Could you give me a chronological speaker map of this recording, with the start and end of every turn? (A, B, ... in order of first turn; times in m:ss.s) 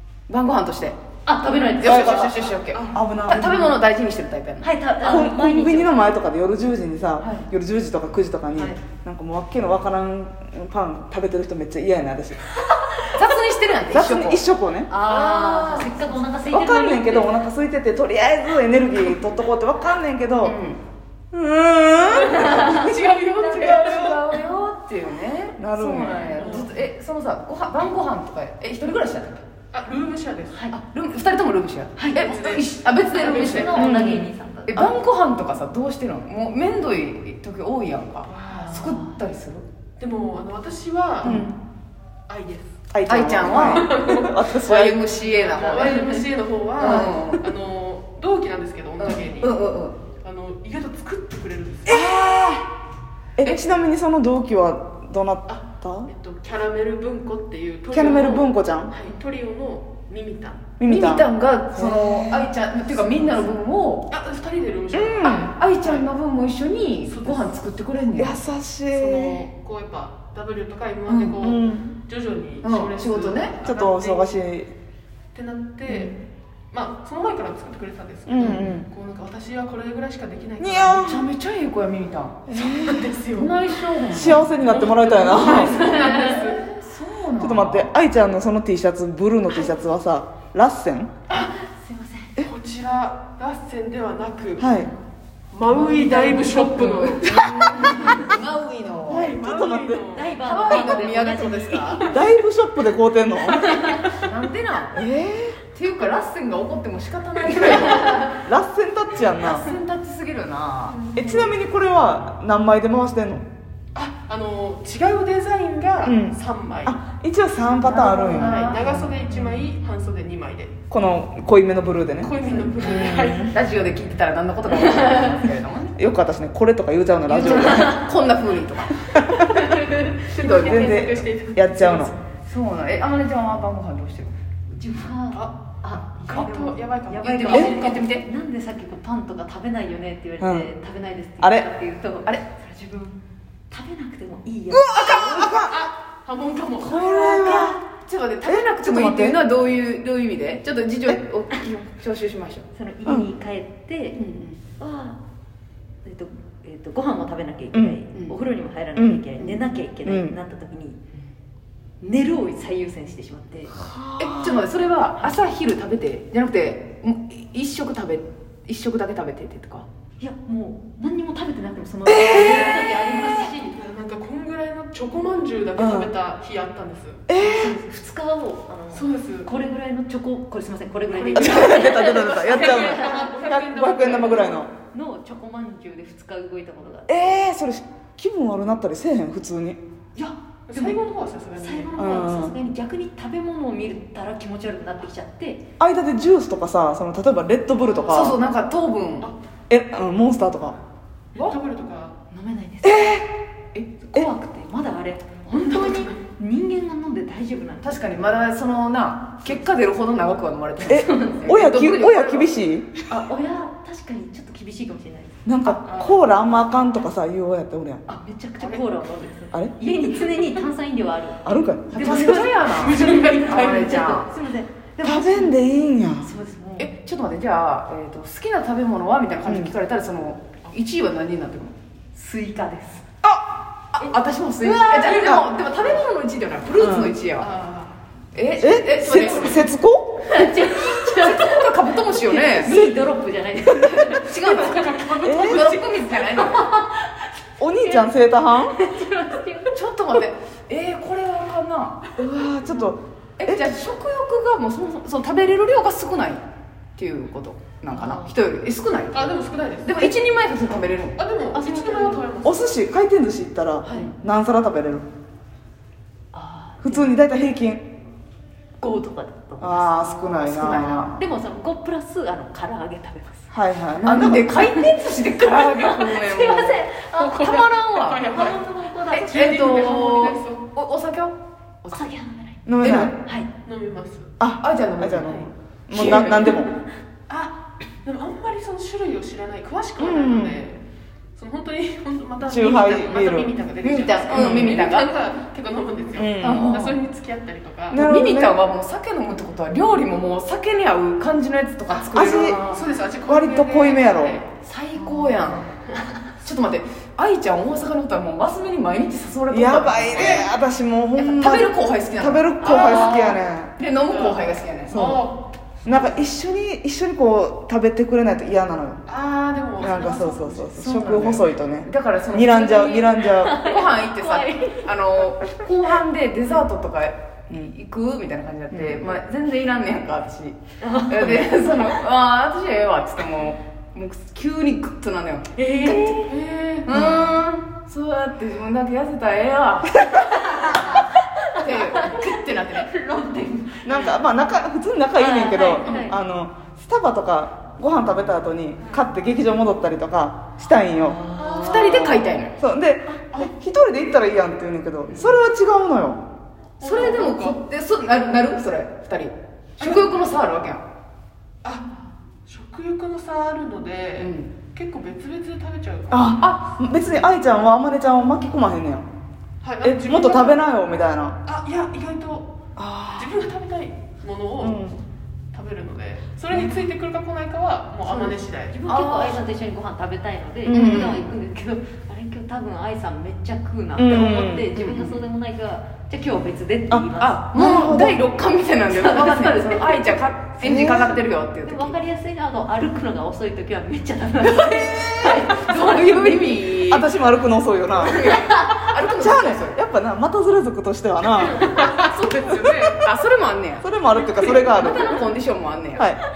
0:00.3-0:01.0 A
0:01.2-0:02.2 B
0:01.7-0:04.7 A
0:01.8-0:03.8 C
0:02.0-0:03.1 D
0:04.6-0:06.1 B
0:05.0-0:12.5 C
0:07.2-0:07.4 A
0:13.1-0:14.4 A
0:13.9-0:14.9 C
0:14.9-0:17.3 B
0:15.0-0:16.3 A
0:16.4-0:20.6 C
0:20.4-0:20.8 A
0:21.3-0:22.7 C
0:22.1-0:23.9 B
0:22.2-0:24.0 D
0:22.5-0:29.4 A
0:23.6-0:24.2 C
0:25.6-0:26.6 C
0:26.2-0:26.6 B
0:26.4-0:26.7 D
0:29.7-0:30.7 D
0:30.5-0:30.8 B
0:30.7-0:39.6 A
0:32.0-0:34.9 B
0:32.2-0:34.0 D
0:33.8-0:34.9 C
0:38.3-0:38.7 D
0:38.4-0:39.2 B
0:40.0-0:41.4 D
0:41.2-0:41.6 C
0:42.3-0:42.7 D
0:42.9-0:45.1 C
0:43.1-0:43.9 A
0:43.5-0:44.4 D
0:44.6-0:46.2 A
0:45.1-0:49.7 D
0:46.8-0:47.5 A
0:49.0-0:50.0 A
0:50.2-0:52.2 D
0:51.9-0:52.7 C
0:53.4-0:56.1 C
0:55.5-1:00.7 D
0:57.9-0:58.9 C
1:00.8-1:02.5 C
1:00.8-1:04.1 A
1:03.0-1:03.4 D
1:04.1-1:06.1 D
1:04.9-1:05.5 C
1:05.2-1:08.4 A
1:07.0-1:07.6 D
1:08.2-1:09.4 C
1:08.9-1:14.4 D
1:11.1-1:11.9 C
1:12.6-1:13.6 A
1:13.6-1:14.7 C
1:15.3-1:16.2 D
1:15.9-1:16.2 C
1:16.7-1:21.2 D
1:18.2-1:18.9 C
1:18.4-1:18.8 A
1:20.6-1:21.3 C
1:20.9-1:22.5 A
1:22.5-1:23.1 C
1:22.6-1:23.8 D
1:23.3-1:27.9 A
1:24.1-1:25.8 C
1:24.7-1:26.6 D
1:25.5-1:26.5 B
1:27.4-1:31.1 C
1:31.3-1:32.4 B
1:32.4-1:34.7 D
1:34.6-1:34.9 C
1:35.5-1:37.9 D
1:35.7-1:39.4 A
1:37.3-1:38.4 B
1:39.1-1:42.3 D
1:39.1-1:40.2 C
1:40.1-1:42.1 B
1:40.4-1:42.1 A
1:42.1-1:44.0 C
1:43.7-1:44.0 B
1:44.1-1:45.0 A
1:44.9-1:45.6 C
1:45.7-1:48.2 A
1:48.4-1:49.7 C
1:49.4-1:51.0 A
1:50.9-1:51.5 D
1:51.1-1:53.4 C
1:53.9-1:57.0 D
1:56.0-1:58.7 C
1:57.8-1:59.0 A
1:58.0-2:00.8 D
2:00.9-2:03.6 C
2:02.2-2:03.5 D
2:03.4-2:06.0 A
2:06.0-2:08.1 C
2:07.2-2:09.0 A
2:09.1-2:09.6 C
2:09.5-2:12.2 D
2:10.4-2:10.9 A
2:10.5-2:12.1 C
2:12.4-2:14.3 A
2:14.7-2:23.2 B
2:15.3-2:15.6 D
2:16.2-2:18.0 D
2:17.1-2:18.3 A
2:20.4-2:20.7 C
2:21.4-2:21.7 C
2:23.7-2:25.5 B
2:24.9-2:25.8 C
2:25.0-2:25.4 A
2:25.2-2:27.1 D
2:26.8-2:27.8 C
2:26.9-2:32.6 A
2:28.4-2:29.4 C
2:32.7-2:34.2 B
2:34.1-2:34.6 A
2:34.8-2:35.2 B
2:36.0-2:41.0 B
2:37.7-2:38.0 C
2:38.9-2:39.2 C
2:40.0-2:40.4 C
2:42.0-2:43.9 B
2:43.8-2:44.6 C
2:44.2-2:49.9 A
2:50.2-2:53.8 B
2:52.1-2:52.8 C
2:53.6-2:57.3 D
2:55.8-2:56.1 C
2:57.3-2:57.8 C
2:57.4-3:03.3 B
2:58.9-2:59.5 D
3:01.1-3:04.6 D
3:01.1-3:04.7 C
3:04.8-3:07.4 B
3:07.1-3:09.8 C
3:10.2-3:11.0 B
3:10.7-3:11.9 D
3:11.6-3:15.6 B
3:12.0-3:12.6 C
3:15.8-3:18.4 C
3:18.1-3:19.3 A
3:19.7-3:20.8 C
3:21.4-3:22.2 D
3:22.3-3:23.2 B
3:22.8-3:23.3 C
3:24.1-3:28.0 B
3:25.5-3:25.9 A
3:25.9-3:26.1 D
3:27.8-3:32.5 A
3:30.9-3:32.9 C
3:31.0-3:31.4 B
3:33.1-3:35.4 B
3:35.4-3:38.0 C
3:35.6-3:36.2 D
3:38.1-3:45.6 B
3:38.6-3:38.9 D
3:41.4-3:42.5 C
3:41.9-3:44.3 A
3:42.7-3:44.0 D
3:45.0-3:46.3 C
3:46.2-3:46.9 B
3:46.8-3:51.7 A
3:49.5-3:49.7 C
3:52.1-3:53.0 B
3:53.2-3:53.5 C
3:53.9-3:57.5 A
3:54.0-3:55.3 B
3:56.8-3:57.2 C
3:57.4-3:58.0 D
3:58.3-3:59.7 A
3:58.6-4:00.3 C
3:59.2-3:59.6 D
4:00.2-4:04.6 B
4:00.4-4:02.9 A
4:04.1-4:06.6 A
4:04.5-4:06.2 D
4:05.2-4:05.7 C
4:06.3-4:09.8 B
4:07.6-4:08.8 C
4:09.7-4:12.0 A
4:12.2-4:13.6 C
4:13.4-4:16.4 A
4:17.0-4:19.3 A
4:17.9-4:18.3 B
4:19.1-4:20.1 D
4:19.8-4:21.2 A
4:21.2-4:22.7 D
4:21.5-4:22.3 B
4:22.4-4:25.0 C
4:23.9-4:24.1 A
4:26.3-4:27.1 B
4:26.8-4:27.9 C
4:28.8-4:33.5 B
4:29.6-4:31.2 C
4:30.6-4:31.1 A
4:33.5-4:34.6 C
4:34.0-4:38.5 A
4:34.6-4:34.9 B
4:35.4-4:37.5 B
4:37.2-4:40.6 D
4:38.2-4:39.4 B
4:39.1-4:42.1 A
4:41.9-4:42.6 B
4:42.6-4:43.2 C
4:42.8-4:43.1 A
4:43.6-4:44.3 D
4:44.4-4:46.7 C
4:44.6-4:46.6 A
4:46.1-4:46.3 D
4:47.3-4:50.8 D
4:50.0-4:50.6 C
4:51.4-4:58.1 D
4:52.4-4:53.5 C
4:53.8-4:55.1 A
4:54.3-4:54.8 C
4:56.1-4:56.7 C
4:56.4-4:57.0 A
4:57.9-4:58.6 C
4:57.9-5:02.9 A
5:01.9-5:04.5 D
5:02.1-5:02.6 C
5:03.3-5:04.4 C
5:04.6-5:05.7 A
5:05.0-5:05.6 B
5:06.4-5:10.5 A
5:09.5-5:13.7 C
5:11.2-5:15.0 A
5:12.6-5:13.3 B
5:14.0-5:16.2 D
5:14.9-5:15.3 C
5:15.9-5:19.0 C
5:19.0-5:21.4 D
5:19.8-5:23.6 C
5:20.8-5:21.4 B
5:21.8-5:36.2 A
5:23.2-5:25.0 B
5:28.7-5:29.0 C
5:30.8-5:31.9 B
5:35.6-5:36.4 B
5:36.3-5:36.9 D
5:36.8-5:42.9 A
5:36.9-5:37.2 C
5:40.2-5:44.1 B
5:43.8-5:51.2 C
5:45.1-5:46.1 B
5:45.8-5:46.0 D
5:51.0-5:52.2 B
5:51.3-5:52.6 A
5:51.4-5:52.1 D
5:51.9-5:56.2 C
5:55.1-5:55.4 A
5:56.8-5:57.6 D
5:56.8-6:00.8 A
5:59.8-6:00.1 D
6:02.5-6:06.4 D
6:04.2-6:04.5 A
6:06.1-6:09.0 C
6:09.6-6:10.6 D
6:09.8-6:11.4 C
6:11.4-6:12.5 D
6:12.8-6:13.3 C
6:13.2-6:14.8 D
6:14.6-6:15.0 C
6:15.5-6:18.8 D
6:18.1-6:27.9 B
6:18.9-6:19.4 A
6:20.6-6:21.3 C
6:20.7-6:21.2 A
6:24.0-6:25.2 C
6:26.9-6:28.2 C
6:27.2-6:32.0 A
6:28.9-6:30.2 B
6:30.6-6:31.2 C
6:31.6-6:36.7 B
6:35.3-6:37.1 A
6:36.7-6:38.2 C
6:37.9-6:39.8 A
6:38.3-6:38.9 B
6:39.1-6:42.5 C
6:41.3-6:43.1 D
6:43.0-6:43.9 A
6:43.8-6:45.2 C
6:44.1-6:44.9 D
6:44.5-6:46.1 A
6:46.0-6:46.2 C